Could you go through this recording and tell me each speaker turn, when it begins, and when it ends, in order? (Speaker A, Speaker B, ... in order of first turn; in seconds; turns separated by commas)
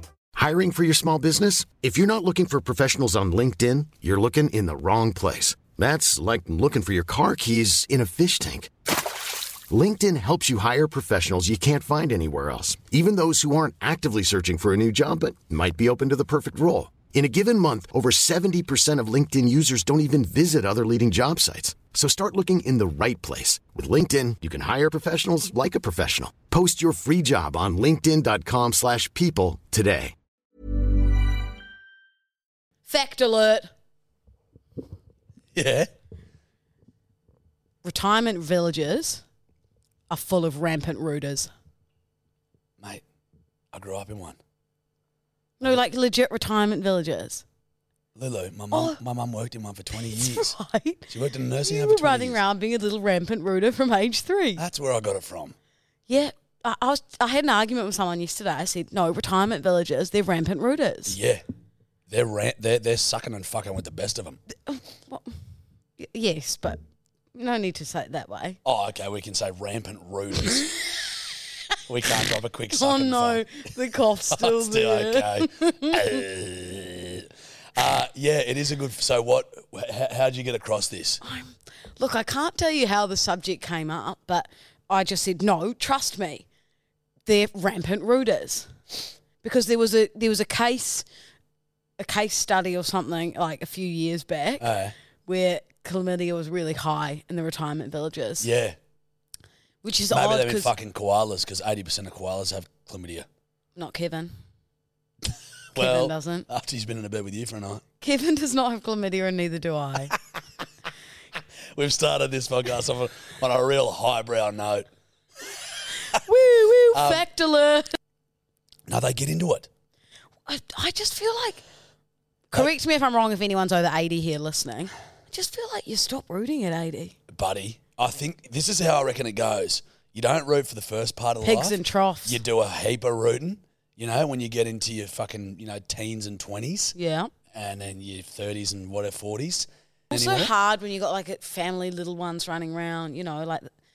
Speaker A: 0.3-8.7, Speaker A: 9.7-30.1, Speaker B: 32.9-33.7, Speaker C: 35.5-35.9, Speaker B: 37.8-39.2, Speaker B: 40.1-41.5, Speaker C: 43.7-44.4, Speaker B: 45.6-47.4, Speaker C: 48.1-50.5, Speaker B: 48.7-49.0, Speaker B: 49.9-51.1, Speaker C: 51.1-52.4, Speaker B: 51.6-54.6, Speaker C: 54.6-55.5, Speaker B: 56.1-61.2, Speaker C: 61.1-61.4, Speaker C: 62.1-64.4, Speaker B: 64.7-65.3, Speaker B: 66.0-66.8, Speaker B: 67.3-68.6, Speaker C: 68.6-70.7, Speaker C: 71.9-73.5, Speaker B: 72.7-76.2, Speaker C: 74.3-81.2, Speaker B: 81.2-86.4, Speaker B: 87.2-88.7, Speaker B: 89.4-91.0, Speaker B: 92.0-94.7, Speaker C: 94.6-95.0, Speaker B: 95.2-98.5, Speaker C: 98.4-98.8, Speaker B: 99.8-100.7, Speaker C: 100.1-103.3, Speaker B: 103.8-104.3, Speaker C: 105.7-107.8, Speaker B: 105.7-106.5, Speaker B: 108.0-110.2, Speaker C: 111.7-114.9, Speaker B: 116.1-117.9, Speaker C: 116.9-117.2, Speaker C: 118.9-119.7, Speaker B: 120.5-121.6, Speaker B: 122.5-127.2, Speaker C: 127.3-136.9, Speaker B: 131.4-132.4, Speaker B: 136.9-137.3, Speaker C: 137.5-140.5, Speaker B: 140.1-143.7